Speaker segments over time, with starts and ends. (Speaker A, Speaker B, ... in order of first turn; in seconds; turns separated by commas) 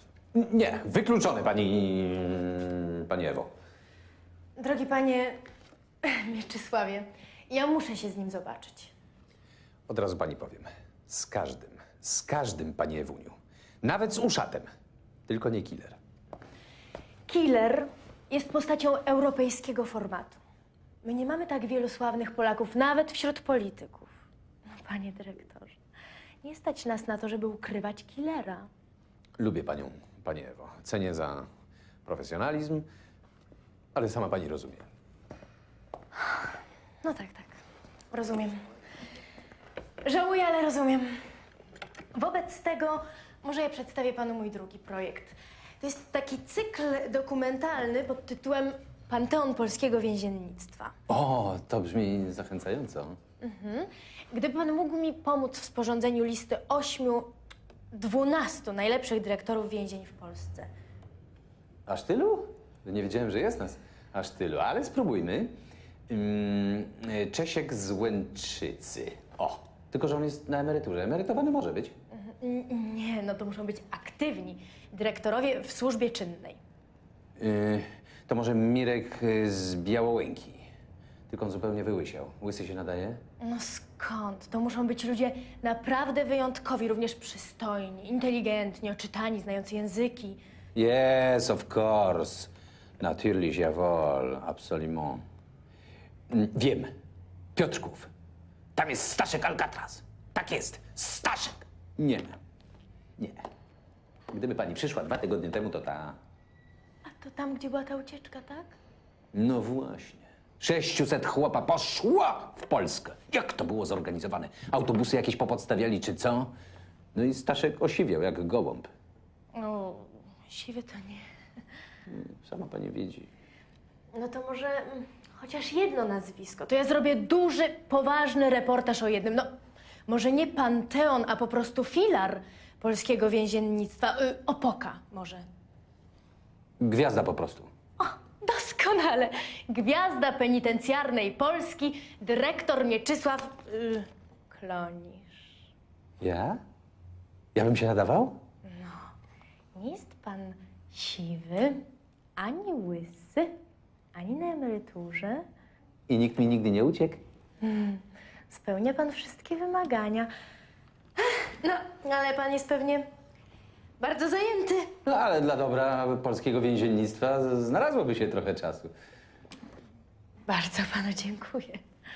Speaker A: 0.3-3.5, Speaker B: 4.6-5.4, Speaker B: 6.0-8.9, Speaker A: 9.9-14.7, Speaker A: 15.3-16.0, Speaker B: 17.3-20.4, Speaker B: 21.0-24.1, Speaker B: 24.8-25.8, Speaker B: 26.4-28.7, Speaker A: 29.4-31.5, Speaker A: 32.1-32.9, Speaker A: 34.0-34.9, Speaker B: 37.0-37.6, Speaker B: 38.1-38.6, Speaker B: 40.0-41.2, Speaker B: 42.1-50.9, Speaker A: 51.1-53.2, Speaker B: 53.4-57.3, Speaker B: 57.9-60.7, Speaker A: 61.9-65.5, Speaker A: 66.1-71.9, Speaker B: 72.1-76.6, Speaker A: 77.4-80.7, Speaker A: 81.3-83.2, Speaker B: 83.4-90.4, Speaker A: 90.8-95.2, Speaker A: 96.3-96.9, Speaker A: 97.5-98.1, Speaker A: 98.8-102.4, Speaker A: 103.2-103.4, Speaker A: 104.3-106.2, Speaker B: 107.0-108.8, Speaker A: 109.3-116.5, Speaker A: 117.1-118.9, Speaker B: 119.5-121.2, Speaker A: 122.1-123.3, Speaker B: 124.1-129.5, Speaker B: 130.1-135.5, Speaker A: 136.8-137.7, Speaker B: 138.0-145.6, Speaker A: 146.2-146.6, Speaker A: 147.6-148.4, Speaker B: 148.7-149.1, Speaker B: 149.7-151.8, Speaker B: 152.4-153.5, Speaker B: 154.2-155.4, Speaker A: 156.1-157.2, Speaker B: 157.6-160.3, Speaker B: 161.2-163.1, Speaker B: 164.0-164.9, Speaker A: 165.1-168.9, Speaker B: 170.5-171.8